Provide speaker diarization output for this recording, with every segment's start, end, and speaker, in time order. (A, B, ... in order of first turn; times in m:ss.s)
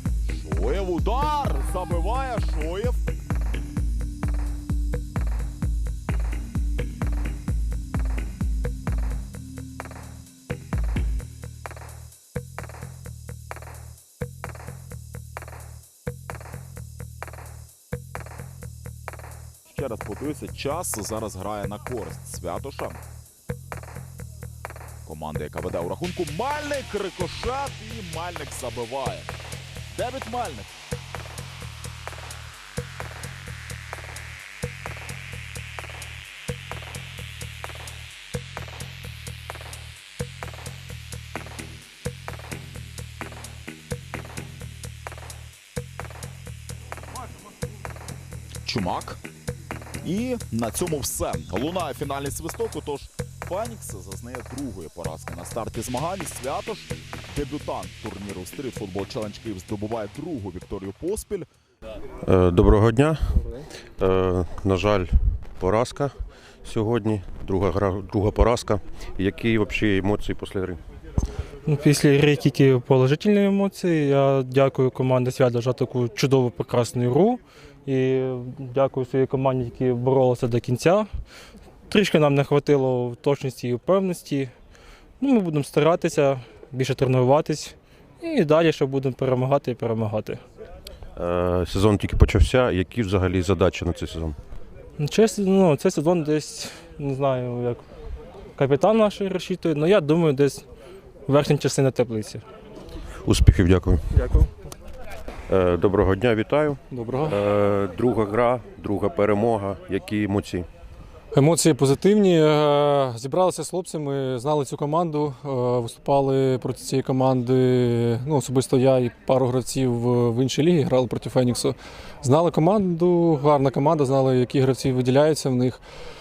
0:00.2-0:03.0 A
0:19.7-0:23.0 A
0:25.0-0:29.3 A
0:29.9-0:30.7 A
0:48.6-0:49.2 A
0:50.0-1:01.5 A
1:02.2-1:03.4 B
1:04.0-1:10.8 B
1:11.7-1:21.1 C
1:21.9-1:24.5 C
1:25.2-1:30.4 C
1:31.1-1:34.4 B
1:35.0-1:37.8 C
1:38.6-1:40.6 C
1:41.3-1:42.4 C
1:43.2-1:44.1 B
1:45.5-1:50.7 B
1:46.9-1:47.4 D
1:51.3-2:05.8 D